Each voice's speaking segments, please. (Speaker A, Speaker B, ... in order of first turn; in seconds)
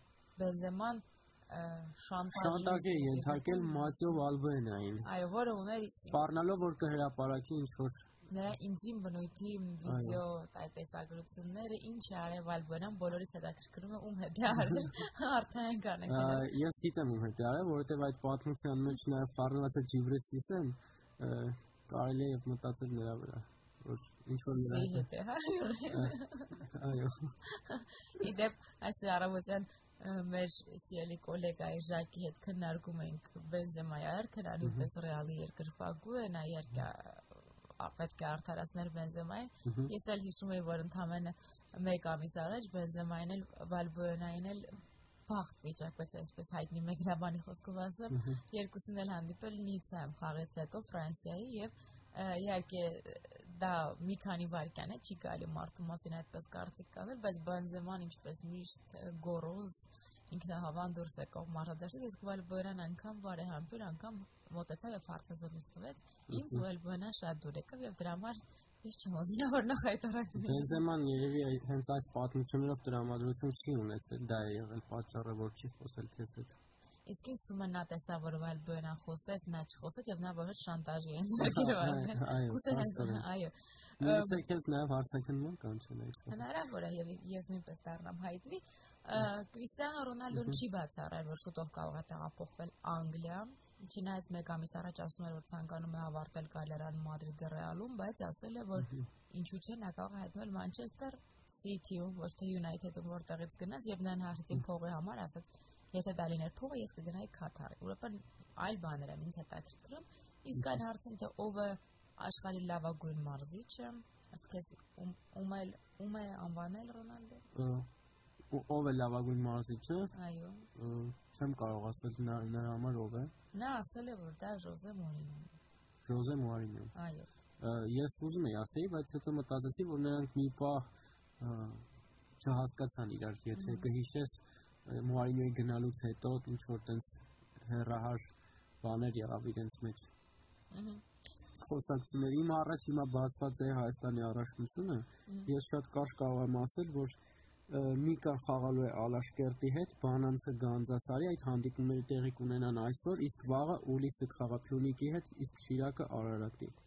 Speaker A: 0.4-4.2, 5.0-6.2, 8.3-16.5, 24.5-26.7, 27.5-70.8, 77.1-84.4, 86.3-117.4, 120.1-120.7, 123.5-125.6, 127.0-127.3, 133.6-133.9, 140.7-141.0, 145.3-145.5
Speaker B: 2.3-5.1, 6.1-8.1, 9.8-10.2, 16.1-25.1, 25.9-27.4, 34.6-34.9, 39.6-39.9, 48.1-48.4, 66.3-66.6, 70.4-76.6, 81.4-83.3, 84.0-86.4, 90.3-90.6, 98.8-99.1, 117.5-117.9, 118.5-120.1, 120.7-123.3, 126.0-126.9, 127.6-130.9, 131.4-131.9, 132.4-138.2, 138.8-140.1, 141.6-147.2, 147.7-156.8